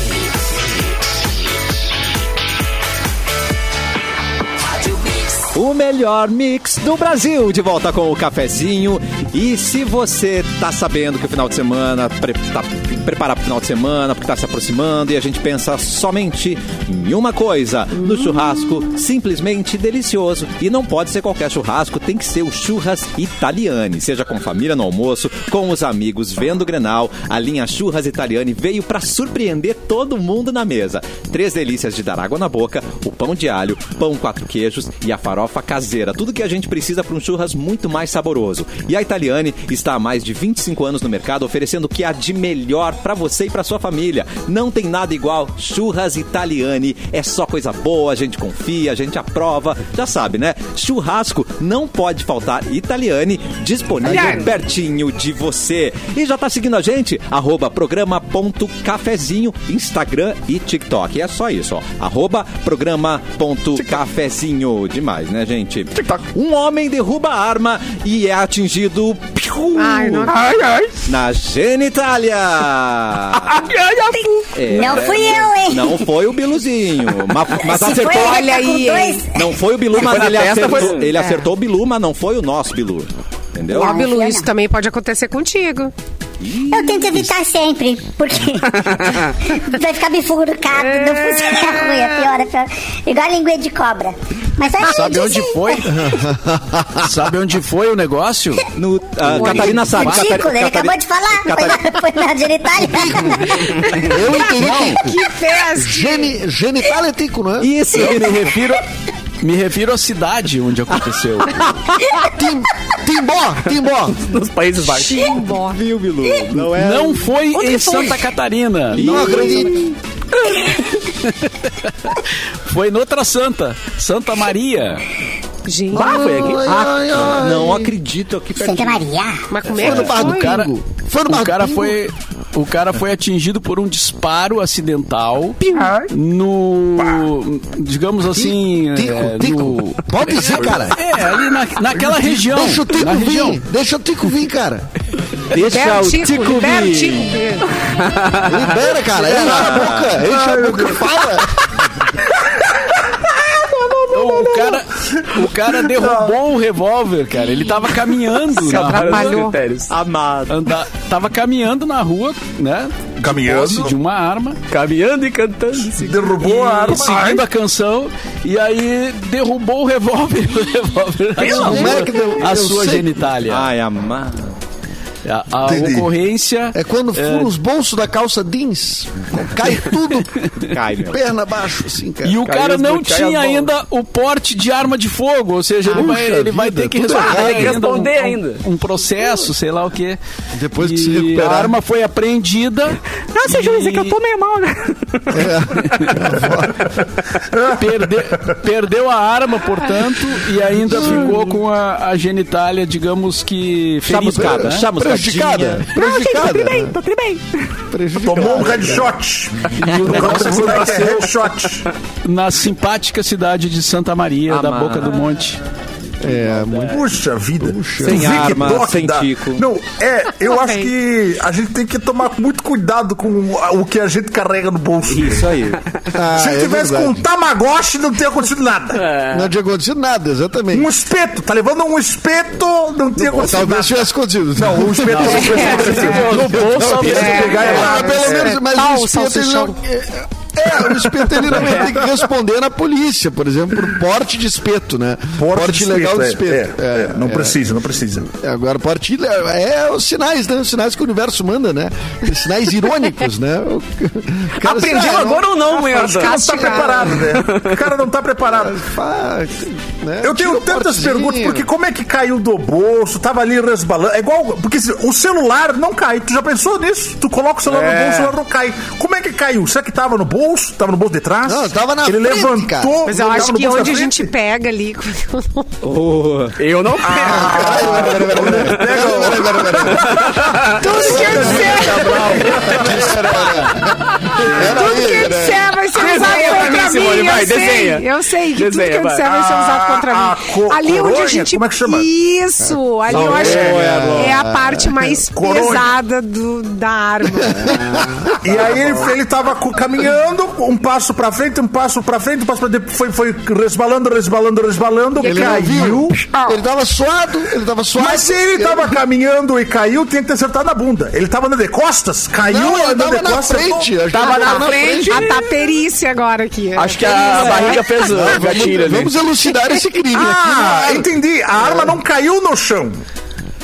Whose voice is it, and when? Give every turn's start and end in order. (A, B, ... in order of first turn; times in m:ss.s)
0:05.5-1:10.3 A
0:54.0-0:54.4 B
0:54.0-0:54.4 C
1:06.0-1:06.2 B
1:09.8-1:10.4 C
1:10.3-1:10.9 B
1:11.0-1:13.6 A
1:13.3-1:15.3 B
1:14.5-1:18.4 A
1:14.6-1:16.0 D
1:17.6-1:19.5 D
1:17.7-1:19.2 C
1:19.3-1:24.0 A
1:19.9-1:21.1 B
1:20.6-1:21.5 C
1:23.7-1:24.5 D
1:23.7-1:25.9 C
1:26.4-1:27.3 A
1:26.7-1:35.8 D
1:28.8-1:29.3 B
1:30.7-1:32.2 C
1:34.8-1:36.1 E
1:35.8-1:37.1 F
1:37.0-1:38.6 E
1:38.7-1:41.8 A
1:39.2-1:40.3 E
1:39.4-1:44.1 D
1:42.8-1:45.2 F
1:43.9-1:46.3 C
1:45.7-1:47.7 F
1:47.6-1:48.6 A
1:48.0-1:48.8 E
1:49.4-1:51.7 E
1:51.5-1:51.9 A
1:52.1-1:54.2 F
1:54.2-1:55.3 B
1:54.8-1:55.8 C
1:55.6-1:57.3 A
1:56.5-1:59.5 E
1:57.6-1:58.2 B
1:58.9-1:59.9 A
1:58.9-1:59.8 F
2:01.2-2:05.0 E
2:05.6-2:06.5 C
2:05.9-2:06.6 B
2:05.9-2:07.9 F
2:06.6-2:09.0 A
2:08.5-2:09.5 D
2:09.5-2:10.6 C
2:09.7-2:12.0 F
2:09.8-2:23.6 E
2:15.7-2:16.1 C
2:17.0-2:17.2 G
2:18.3-2:21.0 F
2:20.6-2:20.9 G
2:22.2-2:24.8 F
2:25.5-2:27.3 A
2:25.5-2:27.7 C
2:28.0-2:28.7 B
2:28.4-2:31.6 F
2:29.2-2:30.2 A
2:29.5-2:31.2 G
2:33.7-2:36.4 G
2:34.1-2:39.4 E
2:38.6-2:39.9 B
2:38.6-2:39.6 C
2:39.9-2:40.7 A
2:40.5-2:44.6 E
2:43.2-2:44.0 G
2:44.7-2:46.4 B
2:46.0-2:47.4 G
2:46.4-2:53.7 E
2:51.4-2:52.2 B
2:51.4-2:53.2 F
2:53.4-2:54.5 A
2:55.2-2:57.5 E
2:55.7-2:56.0 F
2:55.7-2:56.0 G
2:56.7-3:00.5 F
3:00.6-3:01.2 A
3:01.1-3:02.4 F
3:02.2-3:10.2 E
3:02.4-3:03.7 B
3:05.8-3:07.8 F
3:07.1-3:08.6 B
3:10.5-3:11.8 F
3:10.8-3:14.2 E
3:13.3-3:16.2 B
3:15.3-3:16.8 F
3:17.5-3:18.2 G
3:17.8-3:24.9 E
3:20.8-3:21.4 F
3:24.1-3:25.9 A
3:24.2-3:27.0 F
3:25.9-3:27.7 B
3:27.9-3:29.1 F
3:28.2-3:31.9 G
3:29.7-3:31.3 E
3:30.3-3:30.8 F
3:32.2-3:35.6 E
3:34.5-3:35.2 A
3:36.2-3:37.0 F
3:36.8-3:45.5 G
3:37.6-3:38.5 F
3:38.0-3:39.6 A
3:40.4-3:40.9 C
3:45.1-3:45.8 A
3:46.1-3:47.2 F
3:46.3-3:49.1 G
3:48.9-3:49.5 B
3:49.3-3:50.9 F
3:50.7-3:58.6 G
3:53.2-3:53.7 B
3:53.3-4:07.7 F
3:55.1-3:57.9 E
3:55.3-3:56.2 C
3:57.1-3:59.8 C
4:00.9-4:01.9 G
4:05.4-4:08.3 G
4:08.2-4:15.5 F
4:14.6-4:17.8 B
4:15.9-4:18.8 G
4:16.0-4:17.1 C
4:16.7-4:17.2 F
4:18.5-4:21.7 F
4:20.2-4:34.3 G
4:27.6-4:28.3 B
4:31.4-4:33.0 F
4:33.0-4:35.7 C
4:35.8-4:36.6 A
4:36.6-4:39.2 B
4:37.0-4:43.5 G
4:37.1-4:45.8 F
4:40.0-4:41.5 B
4:40.8-4:42.5 C
4:44.3-4:58.1 C
4:45.9-4:49.2 B
4:49.2-4:52.1 G
4:53.0-4:55.2 F
4:53.1-4:54.4 A
4:55.3-4:55.9 G
4:57.4-4:59.0 F
4:58.4-5:06.2 G
5:05.2-5:05.7 C
5:05.2-5:09.0 F
5:08.0-5:13.9 G
5:12.4-5:15.4 F
5:14.1-5:15.4 B
5:14.1-5:18.3 C
5:16.7-5:19.1 B
5:17.0-5:17.8 A
5:18.0-5:22.0 F
5:20.1-5:23.0 G